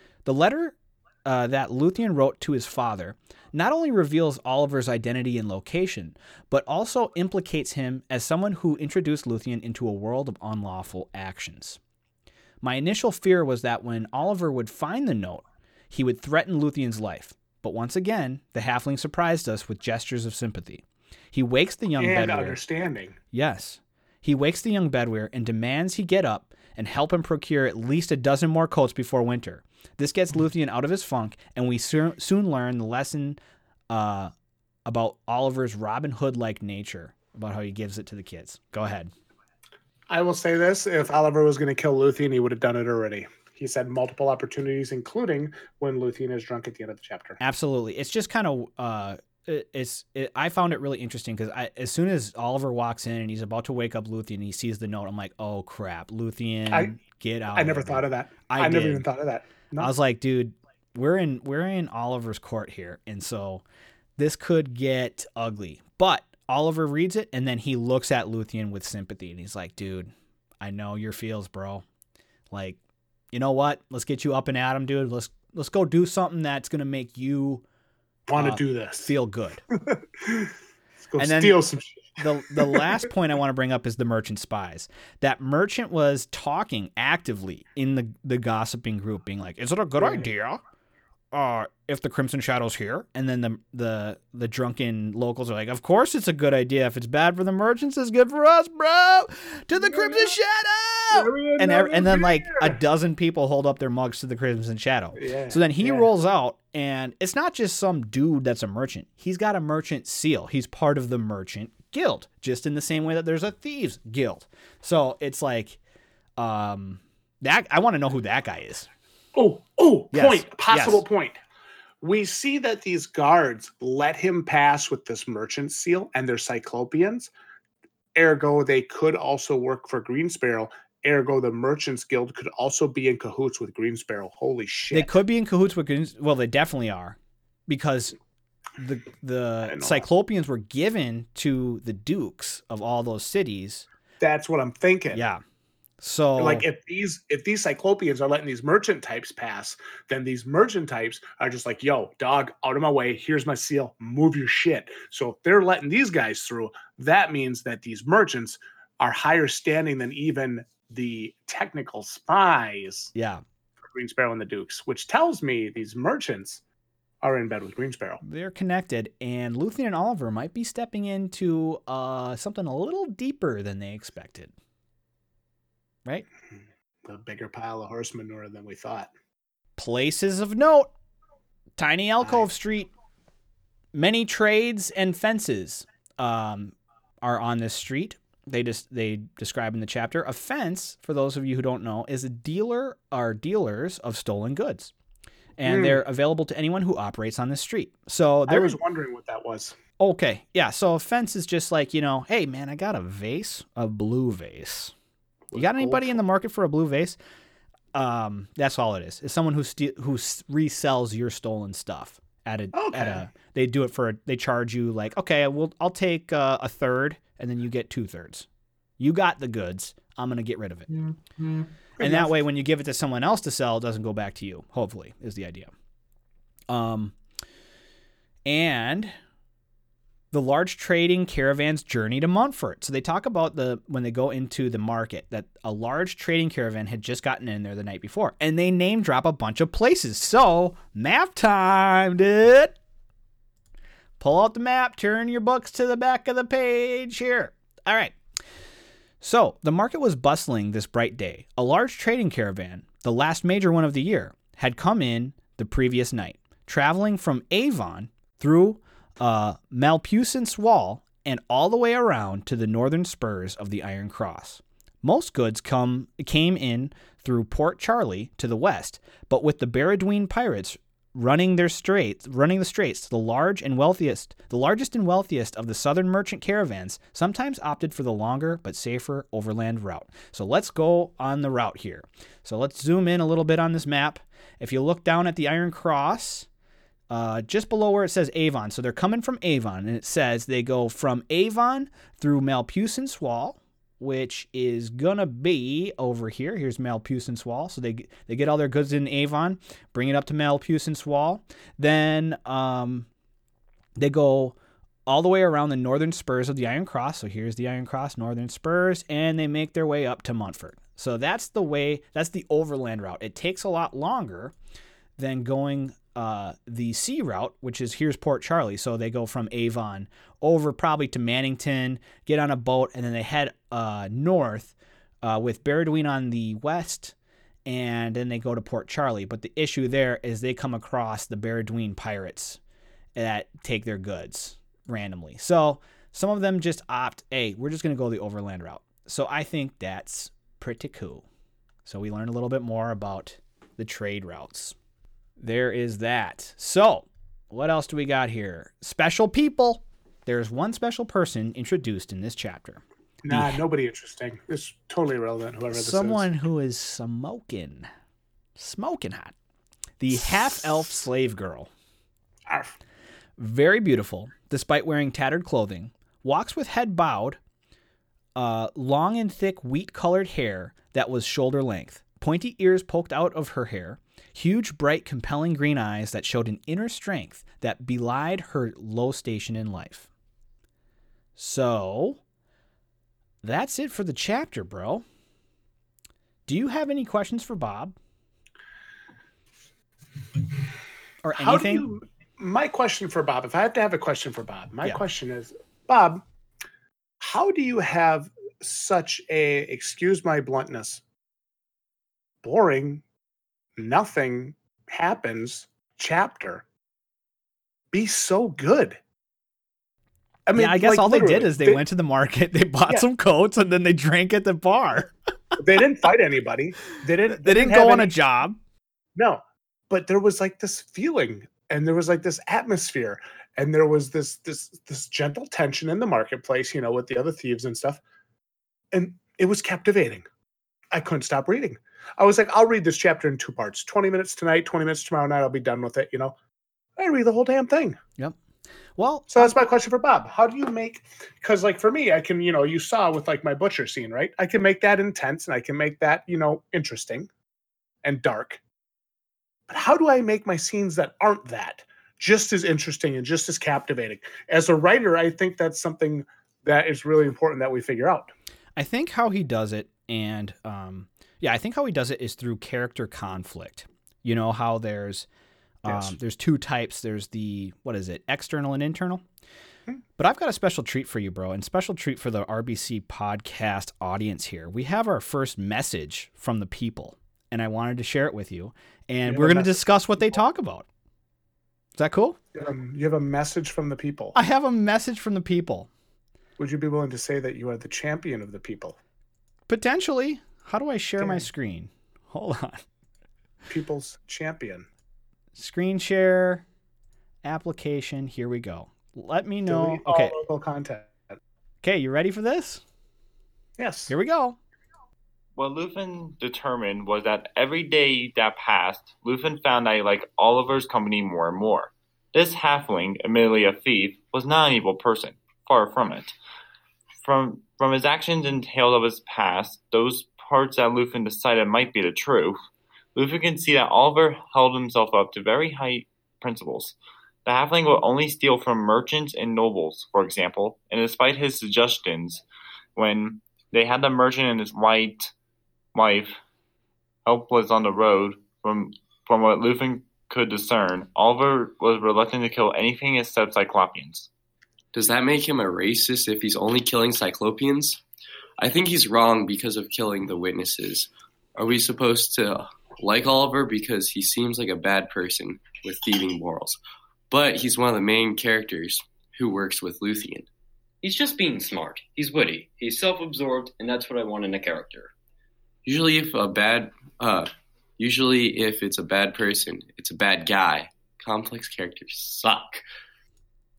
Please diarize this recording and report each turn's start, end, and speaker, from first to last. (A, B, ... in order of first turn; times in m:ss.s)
0:00.2-0:11.8 A
0:12.6-0:22.6 A
0:22.0-0:23.2 B
0:23.3-0:33.4 A
0:33.9-0:34.3 A
0:34.8-0:39.1 A
0:40.1-0:47.4 B
0:47.4-0:59.0 A
0:56.7-0:56.9 B
0:57.5-0:59.9 B
0:59.8-1:03.6 A
1:04.2-1:11.8 A
1:12.5-1:12.8 A
1:13.3-1:17.6 A
1:18.3-1:19.1 B
1:18.4-1:19.6 A
1:19.7-1:20.5 B
1:21.0-1:22.9 B
1:21.2-1:21.6 A
1:22.2-1:30.6 A
1:30.0-1:30.3 B
1:31.3-1:55.8 A
1:39.8-1:40.3 B
1:41.1-1:42.8 B
1:45.2-1:46.1 B
1:56.4-1:58.9 A
1:59.3-2:01.4 B
2:00.1-2:01.0 A
2:02.0-2:07.3 B
2:08.1-2:15.1 B
2:14.9-2:18.1 A
2:18.8-2:23.9 A
2:19.6-2:20.0 B
2:24.2-2:25.2 B
2:25.1-2:25.4 A
2:26.0-2:26.6 A
2:26.4-2:43.1 B
2:43.1-2:43.4 A
2:43.8-2:46.6 B
2:47.2-2:48.2 B
2:48.2-2:54.5 A
2:57.0-2:59.1 B
2:59.8-3:00.9 A
3:01.8-3:02.9 A
3:02.2-3:02.5 B
3:03.9-3:14.9 A
3:15.6-3:18.8 A
3:15.6-3:16.0 B
3:18.5-3:19.8 B
3:20.0-3:24.9 A
3:25.5-3:26.2 B
3:25.5-3:27.2 A
3:27.9-3:38.5 A
3:32.7-3:33.2 B
3:39.0-3:41.0 A
3:41.4-3:42.3 B
3:42.0-3:45.7 A
3:46.7-3:47.1 A
3:48.4-3:49.1 A
3:50.3-4:02.8 A
4:04.2-4:08.2 A
4:09.2-4:46.5 A
4:47.1-5:03.1 A
5:04.0-5:04.5 A
5:05.1-5:14.5 A
5:15.2-5:27.1 A
5:27.6-5:32.6 A
5:33.2-5:41.2 A
5:41.8-5:44.7 A
5:45.4-5:53.6 A
5:53.2-5:56.3 B
5:55.7-5:57.9 A
5:58.6-5:59.3 A
6:00.0-6:01.7 A
6:00.3-6:00.8 B
6:02.5-6:02.7 B
6:03.4-6:07.4 A
6:08.4-6:20.1 A
6:21.4-6:22.2 A
6:23.4-6:25.0 A
6:26.5-6:27.9 A
6:31.2-6:31.9 A
6:31.4-6:36.2 B
6:37.2-6:41.0 B
6:42.4-6:43.0 B
6:43.8-6:46.6 B
6:47.9-6:49.0 B
6:50.5-6:51.8 B
6:50.6-6:55.1 A
6:55.6-6:58.1 B
6:57.4-6:58.6 A
6:59.1-7:08.0 B
7:08.9-7:10.2 B
7:10.9-7:16.3 B
7:17.0-7:18.0 B
7:19.0-7:19.5 A
7:19.3-7:27.3 B
7:28.0-7:28.6 B
7:29.7-7:38.3 B
7:38.8-7:45.3 A
7:45.8-7:49.2 A
7:45.8-7:46.2 B
7:50.2-8:00.9 A
7:59.2-8:00.4 B
8:02.0-8:02.4 A
8:02.5-8:04.4 B
8:04.3-8:05.9 A
8:06.6-8:09.0 B
8:09.7-8:12.8 A
8:11.2-8:11.4 B
8:13.7-8:14.9 B
8:15.5-8:16.6 A
8:17.4-8:20.4 A
8:19.6-8:21.4 B
8:21.8-8:22.8 A
8:23.8-8:24.1 B
8:24.1-8:24.6 A
8:25.6-8:36.3 C
8:37.2-8:42.6 C
8:43.1-8:52.4 C
8:53.0-8:55.3 C
8:55.9-8:56.4 C
8:57.2-9:04.3 C
9:04.9-9:08.0 D
9:08.6-9:16.8 D
9:17.3-9:20.5 D
9:21.0-9:25.1 E
9:25.8-9:32.8 D